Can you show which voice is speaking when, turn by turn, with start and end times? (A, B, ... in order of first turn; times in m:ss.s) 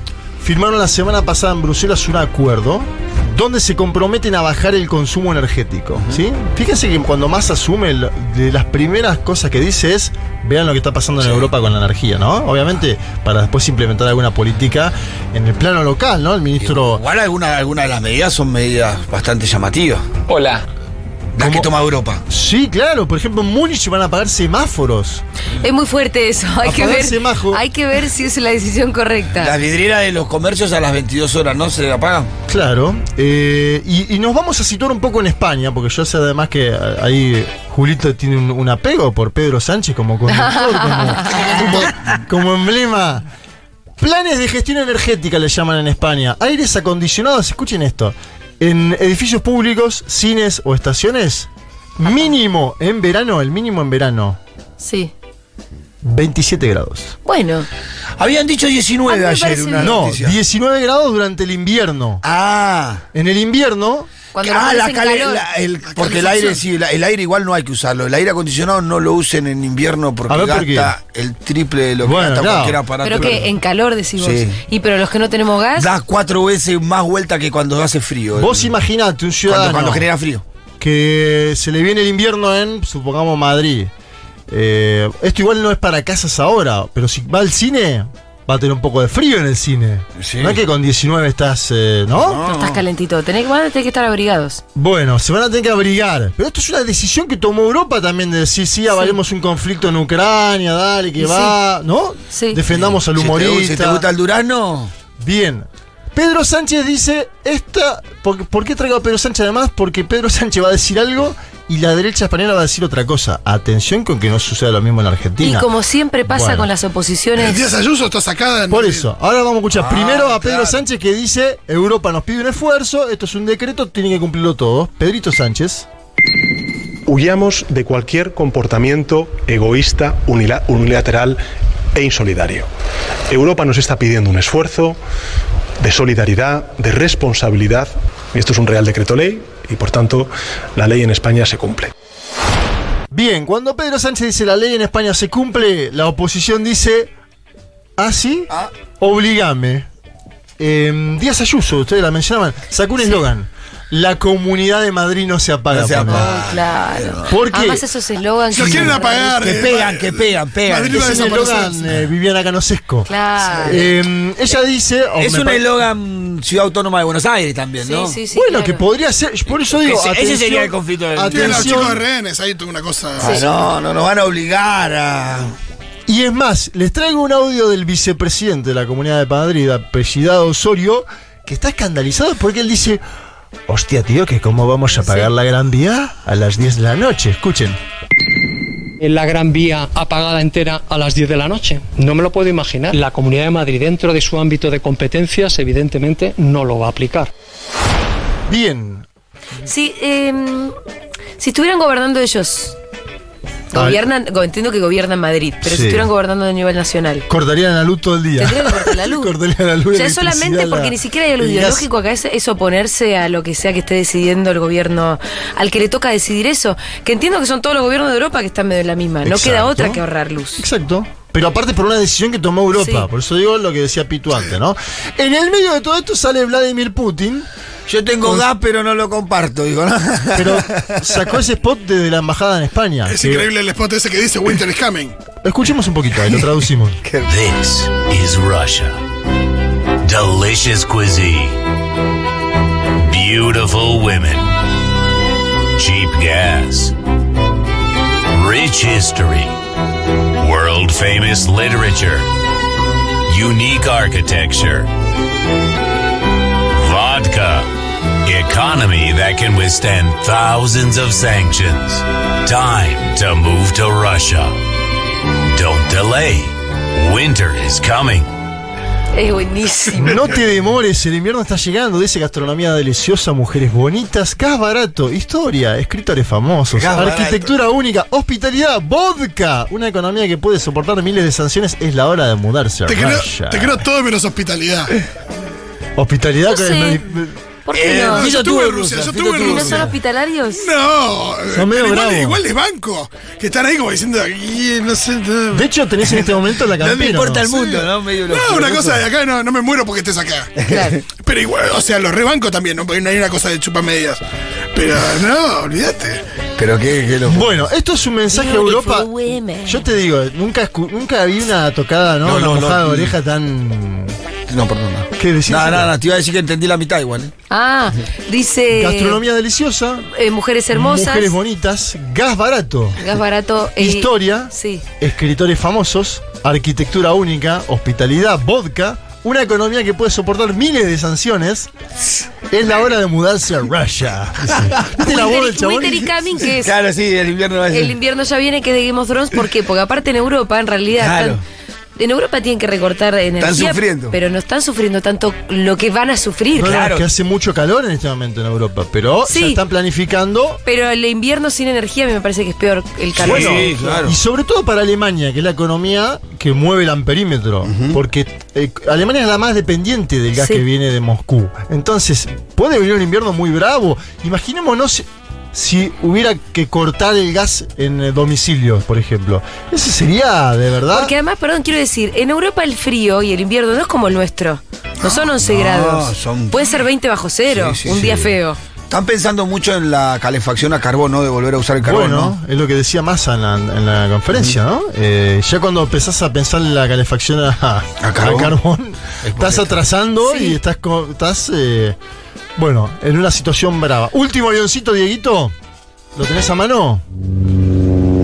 0:00.4-0:17.0 A
0:06.0-0:06.2 B
0:11.2-0:11.5 B
0:16.6-0:20.5 B
0:21.3-0:22.2 B
0:21.4-0:21.7 A
0:22.3-0:25.2 A
0:25.6-0:29.5 C
0:26.6-0:27.6 A
0:29.4-0:32.3 B
0:32.5-0:43.2 A
0:40.3-0:41.7 C
0:44.0-0:54.4 A
0:54.8-0:55.1 C
0:56.0-0:57.1 A
0:57.2-0:57.7 C
0:58.2-1:00.4 B
0:59.1-1:00.0 C
0:59.8-1:02.2 A
1:02.2-1:03.0 B
1:03.1-1:04.1 A
1:04.3-1:05.4 C
1:04.4-1:13.5 B
1:05.9-1:06.6 D
1:10.3-1:10.9 A
1:12.0-1:13.4 A
1:13.0-1:15.9 C
1:14.2-1:14.6 B
1:15.7-1:18.7 B
1:18.3-1:20.1 A
1:19.5-1:20.4 B
1:20.8-1:23.9 A
1:24.5-1:32.4 A
1:30.2-1:30.6 B
1:32.2-1:32.8 B
1:32.5-1:34.6 C
1:34.7-1:44.0 A
1:41.2-1:41.6 C
1:42.3-1:42.6 C
1:42.7-1:44.9 B
1:45.2-1:55.7 A
1:55.4-1:57.7 C
1:56.3-1:56.7 A
1:57.3-1:59.1 D
1:58.7-2:05.9 A
1:59.7-2:00.8 B
2:07.1-2:11.4 E
2:11.9-2:12.7 E
2:13.3-2:15.0 E
2:15.8-2:21.9 E
2:23.1-2:27.1 A
2:28.0-2:29.9 A
2:30.6-2:36.3 A
2:35.7-2:37.2 B
2:36.1-2:39.4 C
2:37.3-2:37.8 A
2:38.5-2:41.9 D
2:39.4-2:41.7 B
2:40.9-2:43.1 A
2:43.1-2:43.8 C
2:43.5-2:43.8 B
2:43.6-2:45.7 A
2:45.2-2:48.2 B
2:47.8-2:48.8 C
2:48.3-2:52.0 A
2:49.7-2:52.0 B
2:51.3-2:53.4 D
2:53.2-2:55.5 B
2:53.2-2:53.4 C
2:56.1-3:03.0 A
3:03.7-3:07.8 A
3:04.9-3:05.3 C
3:09.0-3:17.3 F
3:18.5-3:19.0 A
3:19.6-3:20.7 C
3:21.4-3:22.8 C
3:23.7-3:27.2 C
3:23.7-3:24.0 A
3:25.6-3:26.1 A
3:27.3-3:31.9 A
3:28.4-3:29.3 C
3:29.9-3:40.6 C
3:39.2-3:40.0 A
3:40.6-3:47.5 A
3:42.7-3:43.1 C
3:47.9-3:51.3 B
3:48.2-3:48.5 A
3:50.3-3:53.5 A
3:53.0-3:55.2 D
3:55.4-3:57.0 A
3:57.0-3:57.3 B
3:57.2-3:59.0 G
4:00.0-4:01.6 G
4:03.0-4:04.5 G
4:05.8-4:06.9 G
4:08.3-4:09.6 G
4:10.4-4:12.3 G
4:13.2-4:14.9 G
4:16.7-4:17.7 G
4:18.2-4:24.6 G
4:25.5-4:28.3 G
4:29.1-4:30.4 C
4:30.0-4:43.8 A
4:36.7-4:37.5 B
4:42.9-4:44.9 D
4:46.0-4:47.4 A
4:46.5-4:47.0 C
4:47.6-4:48.3 C
4:47.7-4:49.9 B
4:48.1-4:49.9 D
4:49.4-4:50.7 C
4:50.5-4:55.6 D
4:51.5-4:52.4 A
4:55.5-4:57.8 A
4:56.8-4:59.0 B
4:58.3-5:00.5 D
5:00.6-5:01.0 B
5:00.7-5:01.0 C
5:01.1-5:04.2 D
5:04.7-5:06.2 D
5:06.6-5:07.5 B
5:07.2-5:09.1 A
5:08.3-5:09.9 C
5:09.6-5:14.2 A
5:12.2-5:13.1 B
5:14.5-5:17.3 B
5:15.2-5:15.9 A
5:17.5-5:19.2 C
5:18.7-5:20.1 A
5:20.1-5:21.3 C
5:20.7-5:23.0 A
5:23.0-5:24.8 C
5:23.8-5:31.7 A
5:32.5-5:36.4 A
5:34.5-5:34.9 B
5:35.0-5:36.7 C
5:36.5-5:38.0 B
5:37.7-5:41.4 C
5:40.9-5:41.4 B
5:42.0-5:46.8 C
5:43.4-5:44.2 B
5:46.5-5:50.6 A
5:46.6-5:47.0 B
5:49.3-5:49.6 C
5:50.6-5:53.7 C
5:53.2-5:54.1 B
5:53.2-6:11.1 A
5:57.6-5:58.0 B
6:00.4-6:00.6 C
6:10.9-6:18.6 C
6:15.1-6:16.7 B
6:17.5-6:18.3 B
6:17.9-6:18.3 A
6:18.9-6:22.3 B
6:21.8-6:32.0 A
6:28.0-6:28.5 B
6:29.2-6:29.8 B
6:30.2-6:30.6 C
6:32.6-6:35.5 A
6:36.1-6:37.0 A